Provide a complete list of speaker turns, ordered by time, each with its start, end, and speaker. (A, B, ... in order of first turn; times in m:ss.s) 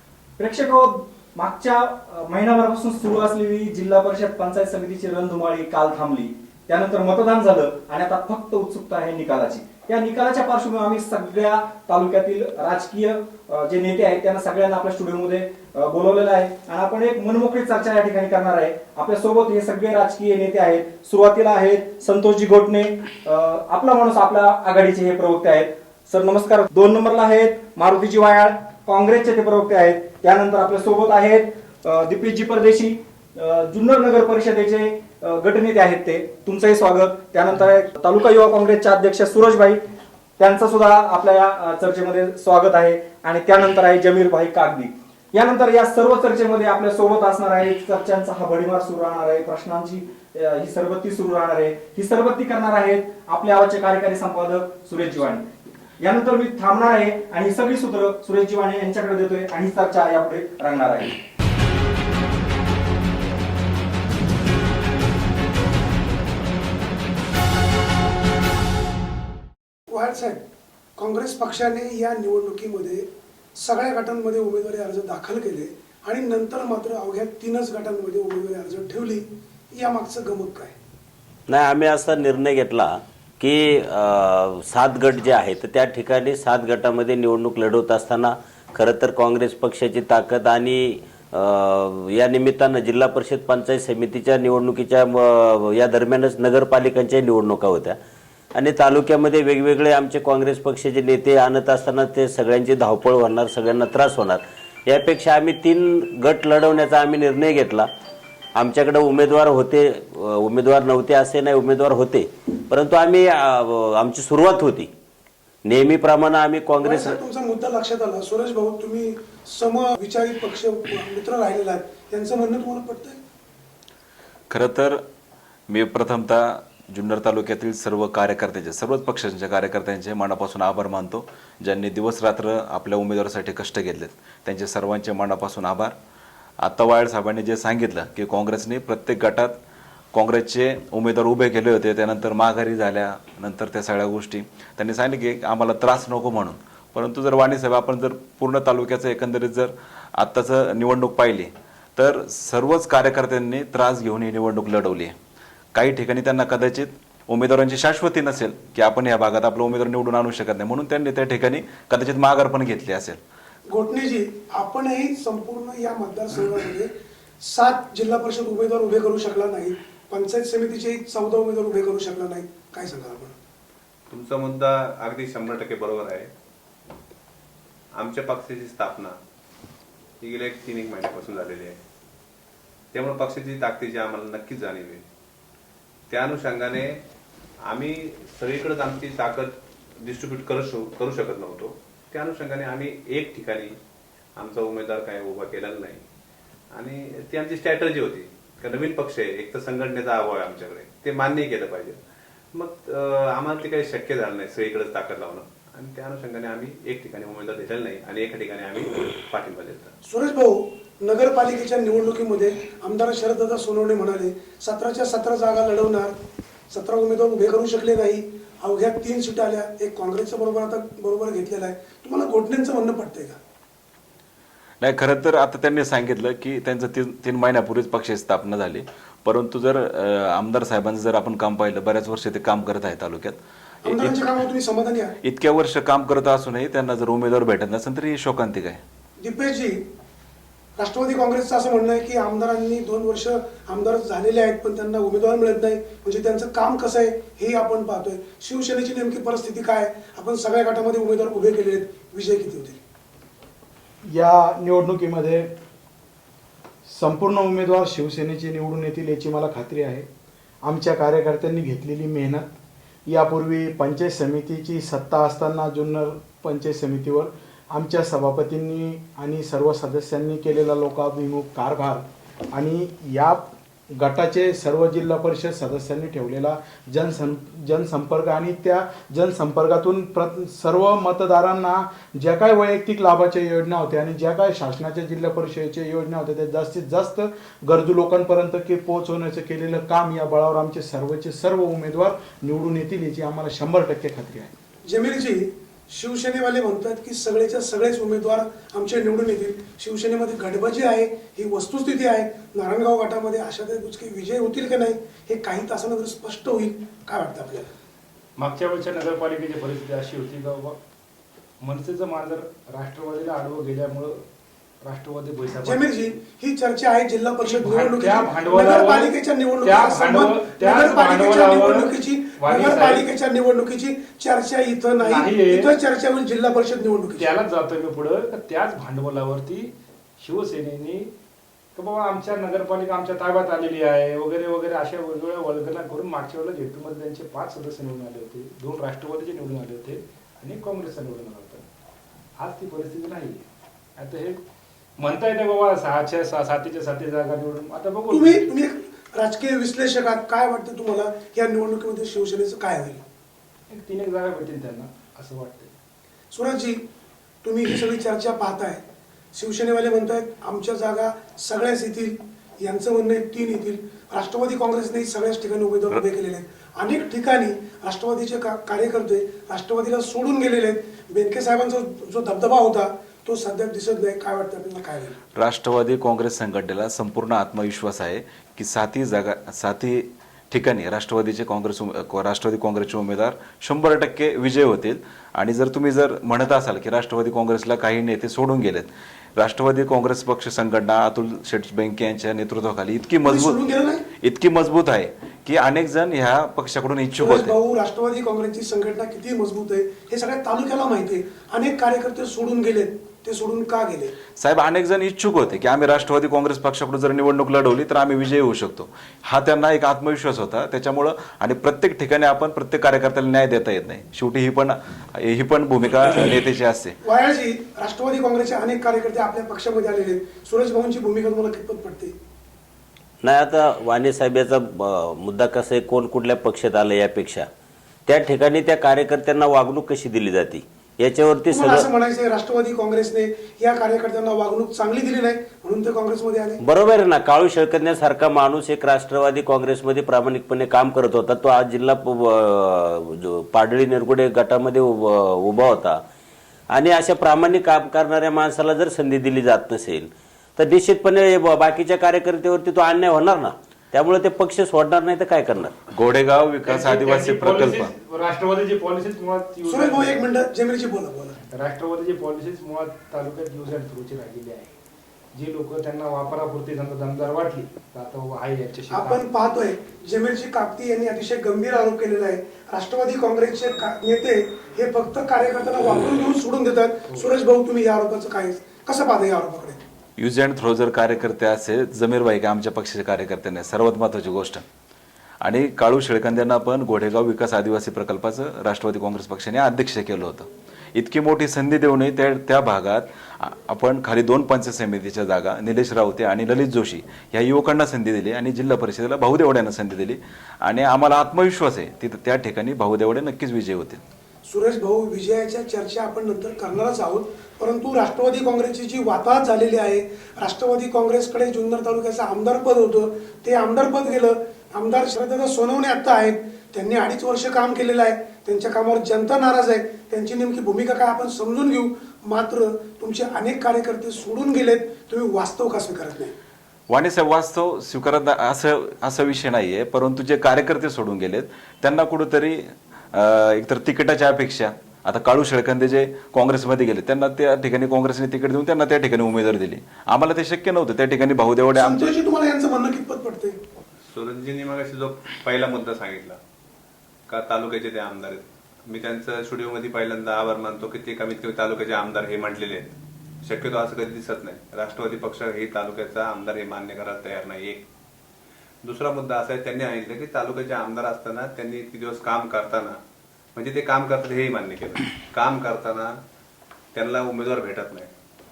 0:00.4-0:39.8 A
0:40.4-0:55.4 A
0:56.0-1:01.2 A
1:09.9-1:10.4 B
1:11.0-1:13.1 B
1:13.6-1:20.7 B
1:21.5-1:38.0 C
1:38.6-1:47.9 C
1:48.6-1:54.9 C
1:55.6-1:57.2 C
1:56.8-2:03.2 B
2:04.5-2:05.0 D
2:05.7-2:15.9 D
2:16.6-2:19.5 D
2:20.1-2:35.1 D
2:35.7-2:43.2 D
2:43.7-2:46.9 B
2:47.4-2:53.3 B
2:54.1-2:56.3 E
2:57.9-2:59.2 E
3:00.2-3:01.8 E
3:02.9-3:05.0 E
3:06.1-3:07.0 E
3:07.6-3:13.8 E
3:14.4-3:16.0 E
3:16.7-3:22.0 E
3:22.5-3:29.9 E
3:30.0-3:36.1 B
3:36.7-3:43.4 B
3:44.8-3:54.3 D
3:53.8-3:55.2 B
3:55.2-3:58.8 D
3:59.2-3:59.8 B
4:00.8-4:12.8 B
4:14.0-4:15.5 F
4:16.9-4:20.1 F
4:20.6-4:22.6 F
4:23.1-4:54.5 F
4:54.9-5:07.7 B
5:08.4-5:10.8 G
5:11.6-5:14.2 G
5:14.8-5:15.9 G
5:15.6-5:27.3 B
5:17.4-5:23.0 G
5:25.0-5:25.7 G
5:27.2-5:31.1 G
5:31.8-5:41.6 G
5:42.4-5:43.4 G
5:44.0-5:44.4 G
5:45.0-5:48.4 G
5:48.1-5:53.0 B
5:53.7-5:55.7 G
5:56.3-5:56.8 B
5:57.4-5:58.8 B
5:59.3-6:15.2 B
6:15.4-6:33.6 D
6:33.2-6:34.1 B
6:34.2-6:37.6 D
6:37.2-6:44.2 B
6:44.4-6:57.0 D
6:57.0-7:02.2 B
7:03.2-7:07.5 C
7:08.1-7:11.9 C
7:11.5-7:16.6 B
7:16.6-7:26.0 C
7:26.7-7:35.8 C
7:35.9-7:37.9 D
7:36.6-7:40.2 G
7:39.7-7:41.4 B
7:41.4-7:44.7 G
7:45.3-7:49.2 G
7:48.9-7:59.8 B
8:00.2-8:04.6 D
8:05.4-8:24.0 D
8:24.5-8:46.3 B
8:46.9-8:52.6 D
8:53.1-9:02.1 D
9:01.8-9:03.6 B
9:04.1-9:06.4 E
9:07.3-9:17.9 E
9:18.8-9:23.0 E
9:23.6-9:26.2 E
9:26.9-9:28.1 E